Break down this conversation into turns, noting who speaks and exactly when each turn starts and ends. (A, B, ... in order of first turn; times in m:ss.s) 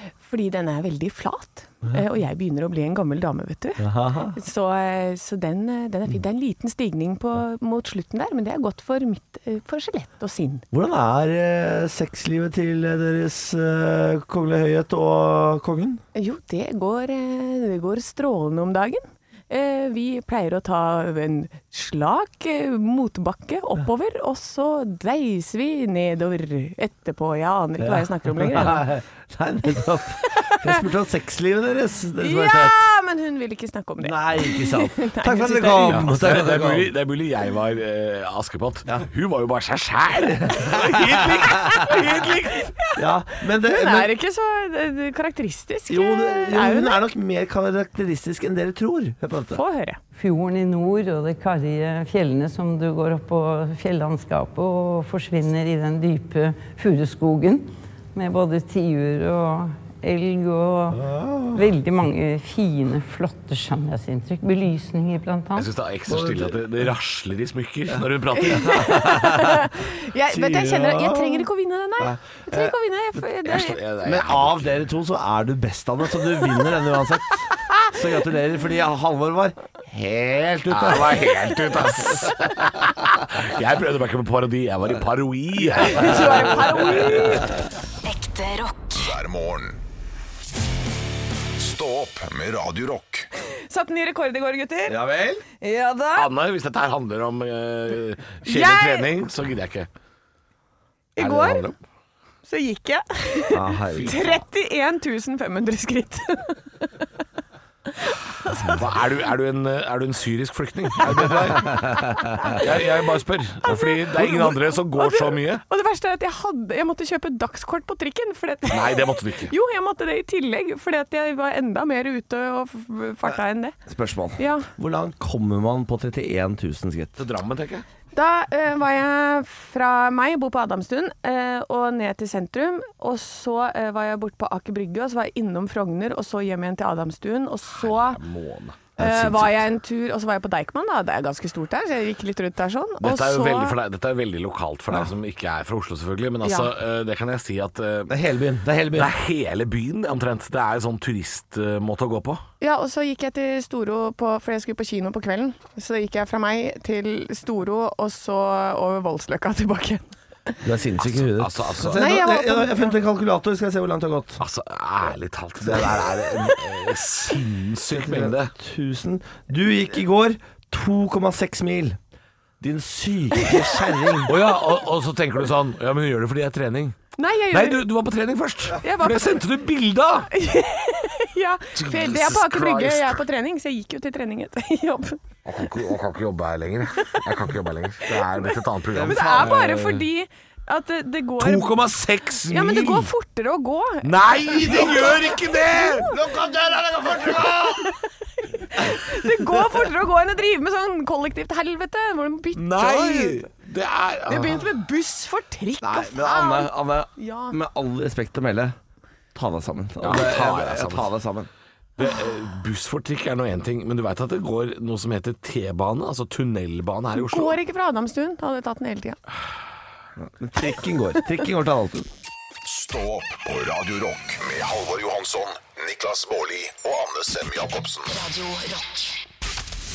0:00.2-0:10.6 A
0:03.8-0:04.4 B
0:10.7-0:16.0 B
0:16.2-0:28.9 A
0:27.8-0:32.8 B
0:30.2-0:30.8 A
0:32.2-0:36.1 A
0:34.0-0:36.9 B
0:35.8-0:42.7 C
0:40.4-0:41.9 B
0:41.4-0:47.0 A
0:43.0-0:44.1 B
0:45.9-0:49.6 B
0:49.5-0:50.0 A
0:50.2-1:01.0 D
1:00.9-1:01.7 B
1:01.6-1:05.7 D
1:05.6-1:08.9 C
1:06.1-1:06.6 B
1:08.0-1:09.6 B
1:08.4-1:13.8 A
1:10.3-1:11.5 B
1:12.0-1:12.7 B
1:13.4-1:14.8 C
1:14.0-1:22.5 B
1:20.7-1:27.4 C
1:25.8-1:27.6 A
1:28.9-1:29.8 E
1:31.6-1:33.3 E
1:33.7-1:35.0 A
1:34.9-1:35.4 B
1:35.6-1:36.3 A
1:36.2-1:39.9 C
1:38.5-1:39.1 A
1:41.2-1:41.7 A
1:41.2-1:41.8 C
1:42.4-1:47.1 A
1:43.5-1:44.4 B
1:43.9-1:44.3 C
1:47.9-1:48.8 A
1:48.7-1:51.8 C
1:51.2-1:52.6 B
1:52.3-1:52.6 A
1:52.6-1:55.6 C
1:53.6-2:03.8 A
1:58.7-1:59.5 C
2:03.9-2:07.2 B
2:04.4-2:04.7 A
2:07.2-2:07.8 C
2:08.1-2:18.2 A
2:17.8-2:18.8 C
2:19.0-2:19.6 B
2:19.0-2:23.8 A
2:23.0-2:28.2 C
2:26.4-2:26.7 A
2:28.1-2:29.1 B
2:28.9-2:32.4 C
2:32.6-2:40.6 A
2:40.6-2:44.4 B
2:41.0-2:42.1 C
2:41.9-2:43.0 A
2:44.4-2:48.5 C
2:47.9-2:52.0 B
2:52.6-2:54.4 B
2:53.4-2:54.2 A
2:54.3-2:57.0 C
2:57.2-2:57.8 A
2:57.5-3:00.3 C
2:58.8-2:59.4 A
3:00.3-3:05.2 A
3:01.8-3:03.2 C
3:05.4-3:10.1 C
3:08.1-3:08.5 A
3:08.9-3:09.6 B
3:09.0-3:11.7 A
3:11.4-3:13.1 C
3:12.5-3:16.0 A
3:14.0-3:16.1 C
3:14.6-3:15.2 B
3:16.0-3:17.9 B
3:18.4-3:23.5 A
3:19.3-3:19.7 B
3:22.5-3:24.7 C
3:24.3-3:27.6 A
3:25.8-3:28.8 B
3:29.3-3:31.5 B
3:30.0-3:31.1 C
3:32.0-3:37.6 C
3:37.2-3:39.2 A
3:40.2-3:42.1 B
3:42.6-3:48.4 E